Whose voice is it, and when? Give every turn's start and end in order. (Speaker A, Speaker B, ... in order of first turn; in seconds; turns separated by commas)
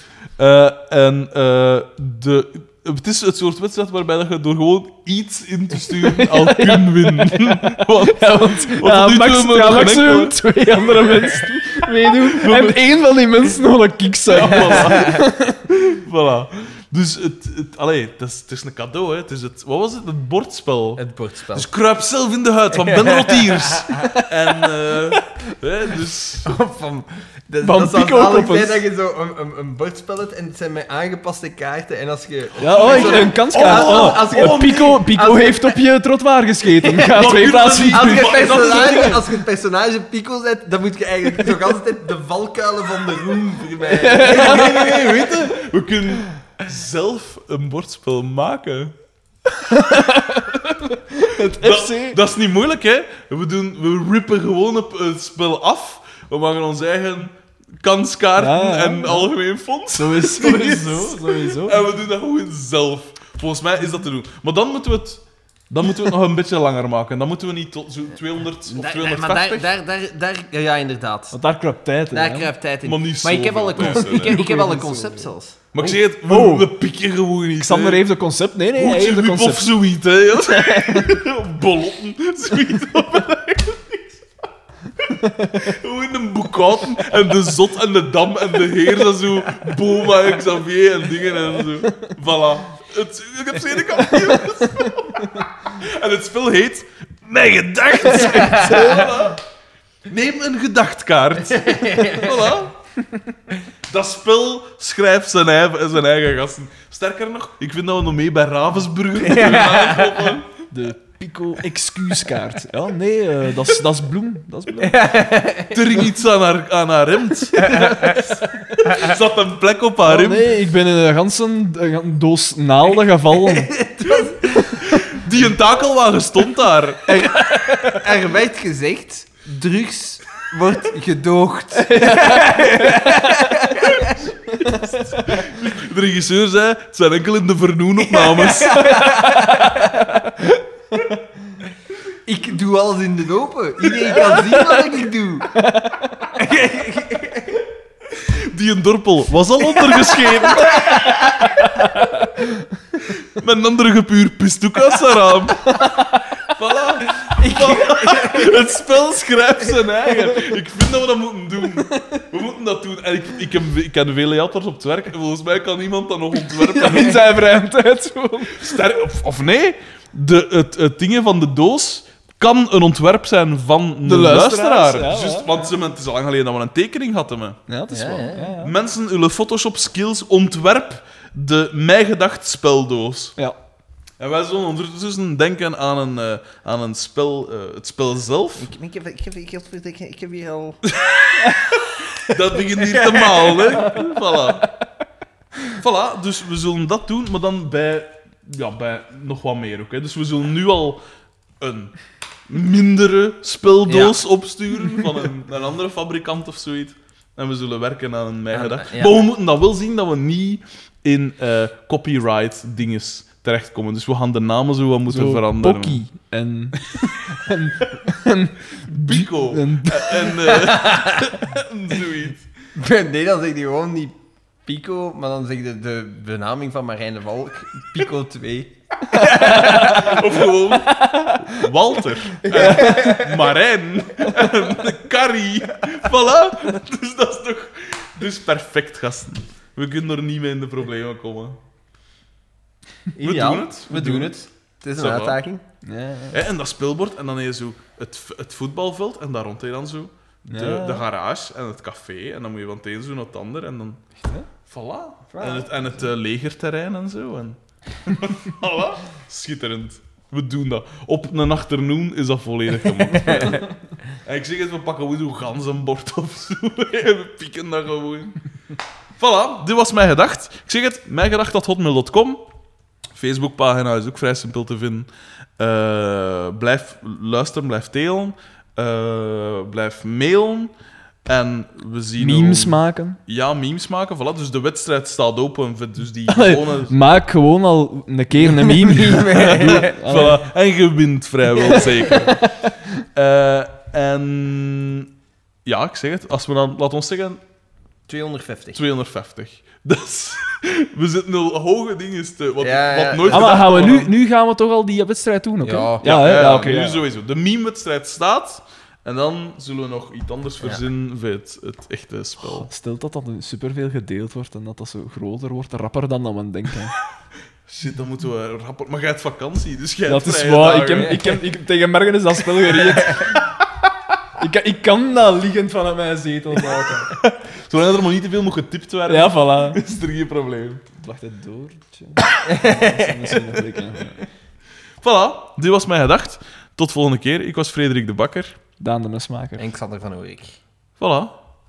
Speaker A: 0.4-10.4, Speaker B: 5.9-15.7, Speaker A: 12.3-12.8, Speaker A: 14.3-26.6, Speaker C: 14.5-15.2, Speaker C: 21.0-21.7, Speaker C: 22.7-24.1, Speaker C: 26.4-35.8, Speaker B: 27.6-28.8, Speaker B: 32.6-39.2, Speaker A: 32.8-35.0, Speaker C: 36.8-37.4, Speaker A: 37.0-39.2, Speaker C: 37.9-45.2, Speaker B: 43.9-45.4, Speaker A: 44.2-48.9, Speaker B: 49.6-52.2, Speaker A: 51.5-69.7, Speaker B: 58.4-59.3, Speaker B: 59.9-61.8, Speaker C: 68.7-71.4, Speaker B: 71.3-72.5, Speaker C: 72.1-75.9, Speaker A: 72.8-74.4, Speaker B: 73.8-75.3, Speaker A: 75.7-78.0, Speaker B: 76.3-76.7, Speaker B: 77.6-79.7, Speaker A: 78.8-84.3, Speaker B: 80.3-81.2, Speaker A: 85.0-99.4, Speaker B: 85.2-85.6, Speaker B: 94.1-95.4, Speaker B: 98.1-99.2, Speaker A: 100.1-102.7, Speaker C: 101.6-102.4, Speaker A: 103.9-110.5, Speaker C: 109.2-110.2, Speaker B: 110.7-115.1, Speaker C: 114.8-115.8, Speaker A: 115.7-120.5, Speaker C: 117.6-118.2, Speaker B: 120.0-123.8, Speaker C: 123.3-125.2, Speaker A: 124.9-128.0, Speaker C: 127.1-134.9, Speaker B: 131.9-133.5, Speaker A: 135.1-139.2, Speaker C: 138.0-140.1, Speaker B: 139.0-140.1, Speaker C: 142.2-145.6, Speaker B: 144.5-144.8, Speaker B: 145.5-146.3, Speaker C: 146.3-147.6, Speaker A: 148.3-151.4, Speaker C: 150.1-151.5, Speaker B: 151.4-152.6, Speaker A: 153.2-155.8, Speaker B: 155.7-156.2, Speaker A: 156.5-167.3, Speaker C: 157.4-158.6, Speaker B: 161.8-162.2, Speaker B: 166.3-168.8, Speaker A: 168.5-177.6, Speaker B: 174.0-175.7, Speaker B: 177.7-178.7, Speaker C: 177.9-178.5, Speaker A: 178.6-183.3, Speaker A: 184.2-188.7, Speaker C: 188.6-190.8, Speaker A: 190.9-191.5, Speaker A: 192.2-194.7, Speaker C: 192.8-193.6, Speaker B: 193.9-194.7, Speaker A: 195.8-201.0, Speaker A: 201.6-201.9, Speaker A: 202.5-216.0, Speaker C: 203.8-204.2, Speaker C: 208.5-209.2, Speaker B: 215.1-220.7, Speaker A: 218.8-222.4, Speaker C: 220.5-221.2, Speaker C: 222.7-230.2, Speaker B: 229.2-230.2, Speaker A: 229.4-241.6, Speaker B: 230.9-231.7, Speaker B: 232.4-233.2, Speaker C: 232.5-233.3, Speaker C: 243.1-245.6, Speaker A: 243.2-244.3, Speaker A: 244.9-245.4, Speaker B: 245.8-246.3, Speaker A: 246.3-254.0, Speaker B: 250.4-251.0, Speaker A: 254.7-263.6, Speaker C: 255.3-255.9, Speaker C: 263.3-263.6, Speaker A: 264.2-268.4, Speaker A: 269.2-272.4, Speaker A: 273.1-280.7, Speaker A: 281.2-287.0, Speaker B: 282.2-283.2, Speaker B: 286.3-290.4, Speaker C: 288.4-289.9, Speaker A: 289.3-292.5, Speaker C: 291.6-292.3, Speaker B: 292.1-292.7, Speaker A: 293.1-295.1, Speaker A: 295.6-297.4, Speaker C: 298.1-298.8, Speaker A: 298.7-304.1, Speaker C: 302.6-303.6, Speaker B: 303.3-307.0, Speaker C: 305.6-306.6, Speaker A: 306.0-312.7, Speaker B: 312.6-317.0, Speaker A: 317.7-321.4, Speaker B: 320.1-323.5, Speaker C: 323.0-323.4, Speaker B: 324.4-327.4, Speaker A: 327.6-330.9, Speaker B: 329.1-329.8, Speaker B: 330.9-334.2, Speaker C: 332.4-333.1, Speaker A: 335.0-338.6, Speaker B: 338.8-339.6, Speaker C: 339.6-340.6, Speaker A: 341.0-341.3